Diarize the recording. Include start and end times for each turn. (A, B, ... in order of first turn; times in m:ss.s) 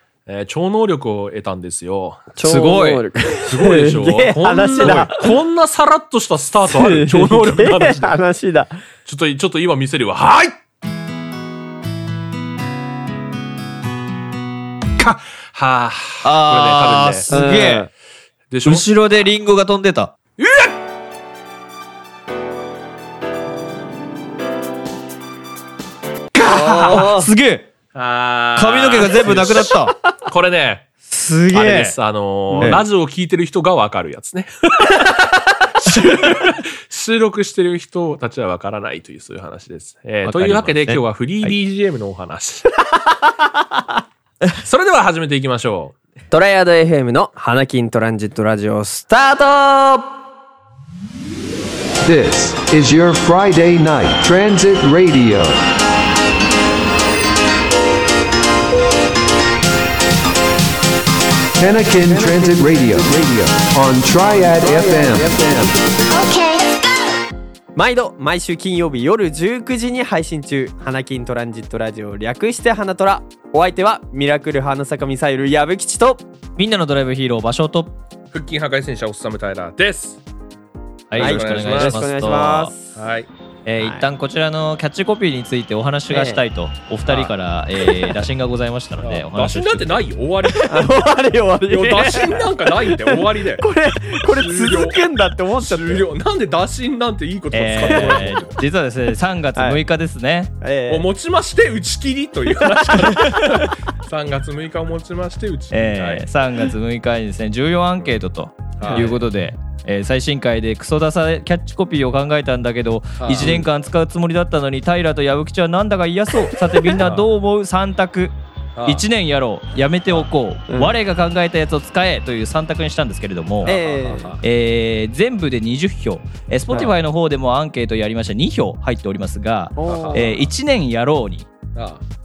0:00.3-0:02.3 A
0:02.3-0:05.3 B
0:02.4-0:03.0 C
0:03.4-0:08.2 A
0:06.7-0:08.8 B
0:09.1-0:10.6 A
0:15.0-0:17.3 A
0:16.2-0:17.9 C
0:17.3-0:17.9 B
0:18.5-0:18.8 A
0:18.6-0:20.1 C
0:20.4-0:20.7 A
0:26.4-0:27.3 B
0:26.4-0:27.7 C
0:27.9-0:29.7 A
0:28.6-0:29.9 C
0:30.2-0:30.9 A
0:31.1-0:32.0 C
0:31.5-0:42.8 A
0:32.5-0:32.8 B
0:32.6-0:32.8 C
0:40.2-0:41.5 C
0:44.6-0:45.9 A
0:46.3-0:50.1 B
0:52.0-0:55.6 D
1:01.6-1:05.8 D
1:02.1-1:02.8 B
1:04.5-1:05.7 B
1:07.7-1:16.2 B
1:16.6-1:17.9 C
1:18.3-1:20.2 A
1:21.1-1:22.7 C
1:21.2-1:22.0 A
1:21.2-1:22.9 B
1:22.9-1:23.3 A
1:23.6-1:30.5 C
1:26.1-1:26.4 B
1:27.0-1:27.3 A
1:29.0-1:30.9 A
1:30.7-1:36.0 B
1:31.7-1:33.7 A
1:34.2-1:35.0 A
1:35.6-1:38.5 A
1:37.5-1:40.5 C
1:37.8-1:38.3 B
1:39.6-1:39.8 B
1:40.6-1:41.0 B
1:40.9-1:46.3 A
1:45.7-2:03.8 C
1:48.8-1:49.3 A
1:48.8-1:49.1 B
1:53.2-1:53.6 A
1:57.0-1:57.3 A
1:58.8-1:59.0 A
2:03.6-2:04.4 A
2:03.6-2:04.4 B
2:04.4-2:11.5 C
2:09.8-2:10.3 B
2:09.8-2:10.3 A
2:11.7-2:12.0 A